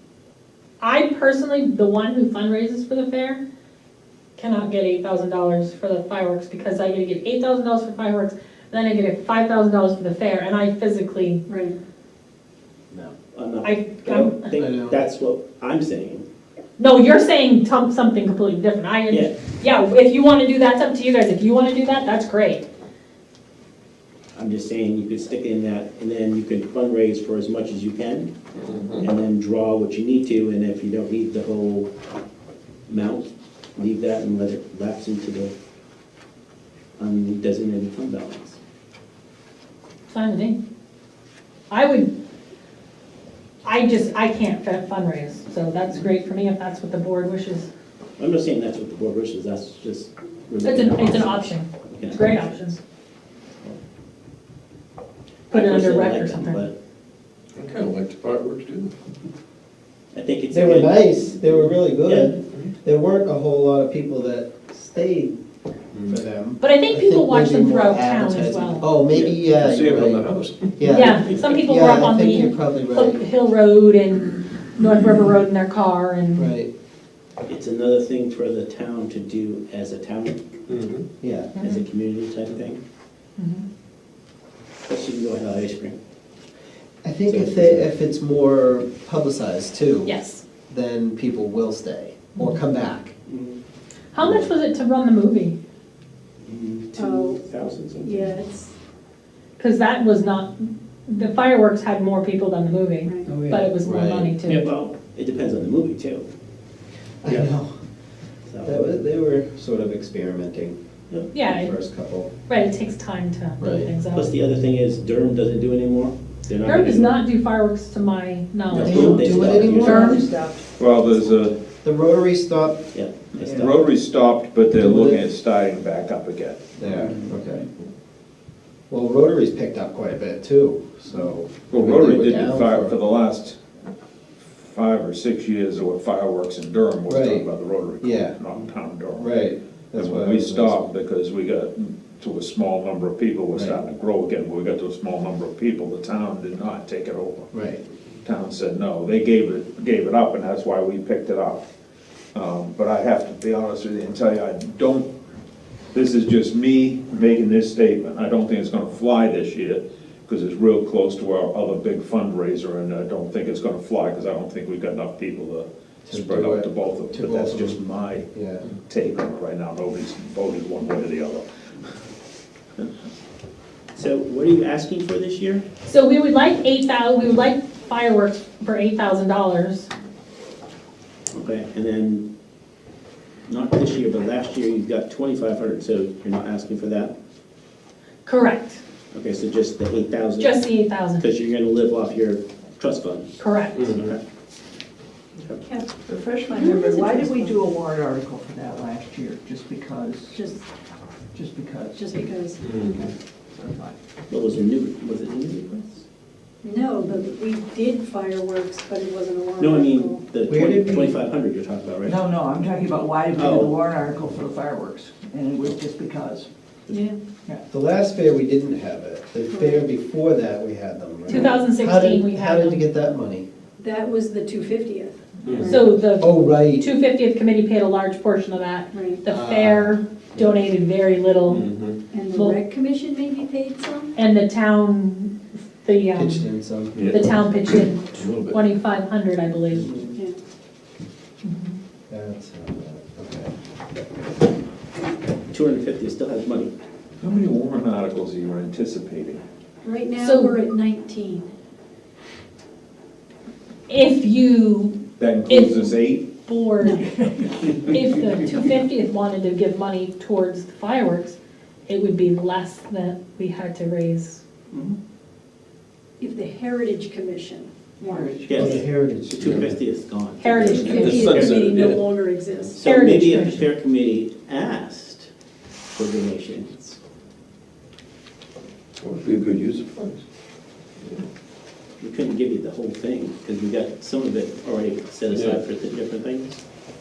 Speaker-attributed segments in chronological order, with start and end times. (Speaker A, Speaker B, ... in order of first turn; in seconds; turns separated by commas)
Speaker A: 0.8-3.4, Speaker A: 4.4-11.4, Speaker B: 11.5-11.8, Speaker C: 13.3-16.2, Speaker A: 13.6-14.4, Speaker D: 14.6-14.9, Speaker A: 16.8-22.6, Speaker C: 24.3-28.3, Speaker E: 28.6-29.1, Speaker C: 29.0-31.9, Speaker C: 32.9-35.5, Speaker C: 37.0-38.6, Speaker A: 40.1-40.6, Speaker A: 41.7-42.1, Speaker A: 43.6-47.7, Speaker C: 48.2-52.6, Speaker A: 50.6-52.8, Speaker C: 55.5-56.7, Speaker A: 55.5-56.6, Speaker E: 57.5-58.9, Speaker C: 60.1-62.4, Speaker D: 60.5-65.4, Speaker D: 66.1-73.2, Speaker A: 66.6-68.9, Speaker E: 69.2-71.0, Speaker A: 70.8-76.5, Speaker D: 76.3-76.7, Speaker C: 77.5-80.6, Speaker E: 80.7-81.0, Speaker D: 81.2-81.5, Speaker C: 81.5-82.8, Speaker A: 81.6-81.8, Speaker A: 83.4-83.6, Speaker C: 84.9-86.0, Speaker D: 87.0-90.1, Speaker C: 87.2-87.9, Speaker A: 90.0-90.4, Speaker D: 90.7-93.1, Speaker C: 93.3-93.6, Speaker A: 94.1-95.5, Speaker C: 96.4-98.3, Speaker B: 97.0-97.4, Speaker B: 98.0-98.7, Speaker A: 99.6-104.7, Speaker B: 103.0-103.3, Speaker D: 103.3-104.3, Speaker C: 104.5-106.3, Speaker D: 107.2-107.7, Speaker C: 107.2-107.5, Speaker C: 108.5-108.9, Speaker D: 108.6-110.8, Speaker A: 111.3-111.7, Speaker D: 111.3-112.3, Speaker A: 112.5-114.3, Speaker D: 113.6-113.9, Speaker C: 114.1-117.2, Speaker A: 116.6-119.2, Speaker F: 118.7-120.7, Speaker D: 118.8-120.2, Speaker G: 118.8-119.7, Speaker C: 118.9-120.2, Speaker A: 119.8-120.2, Speaker G: 120.8-121.6, Speaker D: 121.8-122.8, Speaker C: 122.9-123.8, Speaker F: 123.4-123.7, Speaker G: 123.5-126.6, Speaker D: 124.8-125.2, Speaker D: 126.8-127.7, Speaker C: 127.0-127.3, Speaker D: 128.9-132.9, Speaker G: 131.7-133.6, Speaker G: 134.4-139.3, Speaker D: 137.1-137.4, Speaker D: 138.0-138.3, Speaker D: 139.1-140.8, Speaker G: 140.0-147.5, Speaker D: 143.5-143.8, Speaker D: 147.5-147.8, Speaker G: 148.2-151.7, Speaker G: 152.3-155.1, Speaker G: 155.9-171.4, Speaker D: 166.1-167.8, Speaker D: 168.3-168.6, Speaker C: 173.9-175.6, Speaker A: 175.8-179.9, Speaker C: 181.3-182.3, Speaker C: 183.5-187.1, Speaker A: 188.2-188.8, Speaker C: 189.1-194.2, Speaker A: 190.4-191.2, Speaker A: 193.4-193.8, Speaker E: 193.8-194.0, Speaker F: 196.0-200.4, Speaker B: 196.5-197.7, Speaker B: 200.3-200.6, Speaker F: 201.3-202.2, Speaker B: 201.9-202.6, Speaker E: 202.6-203.1, Speaker F: 203.0-203.9, Speaker C: 204.3-206.0, Speaker B: 206.6-210.2, Speaker C: 209.6-212.2, Speaker D: 210.5-211.2, Speaker F: 212.1-216.5, Speaker C: 213.3-213.7, Speaker B: 216.9-217.2, Speaker D: 217.7-223.4, Speaker B: 219.5-219.8, Speaker A: 221.3-222.8, Speaker B: 221.3-221.6, Speaker B: 223.8-225.8, Speaker E: 225.5-225.8, Speaker A: 225.6-231.7, Speaker D: 226.1-226.8, Speaker B: 228.9-229.2, Speaker D: 229.2-230.0, Speaker E: 231.5-232.0, Speaker B: 232.1-234.1, Speaker A: 232.3-232.6, Speaker A: 234.2-239.9, Speaker D: 236.1-237.1, Speaker E: 236.9-237.5, Speaker E: 238.1-238.6, Speaker C: 239.8-240.1, Speaker A: 241.4-241.8, Speaker D: 242.1-243.5, Speaker C: 245.5-246.7, Speaker G: 247.2-249.4, Speaker B: 249.8-251.5, Speaker A: 250.2-250.6, Speaker A: 253.9-255.0, Speaker G: 255.2-256.2, Speaker A: 255.5-257.0, Speaker F: 257.1-257.7, Speaker A: 257.8-264.4, Speaker C: 264.7-265.0, Speaker B: 266.2-268.4, Speaker F: 268.0-268.8, Speaker C: 268.4-271.6, Speaker D: 268.5-269.6, Speaker E: 269.3-269.7, Speaker A: 270.4-271.3, Speaker B: 270.6-272.8, Speaker E: 270.7-272.1, Speaker C: 272.7-275.3, Speaker A: 272.8-273.6, Speaker C: 275.9-277.0, Speaker E: 279.0-280.2, Speaker C: 282.0-286.6, Speaker E: 285.3-285.6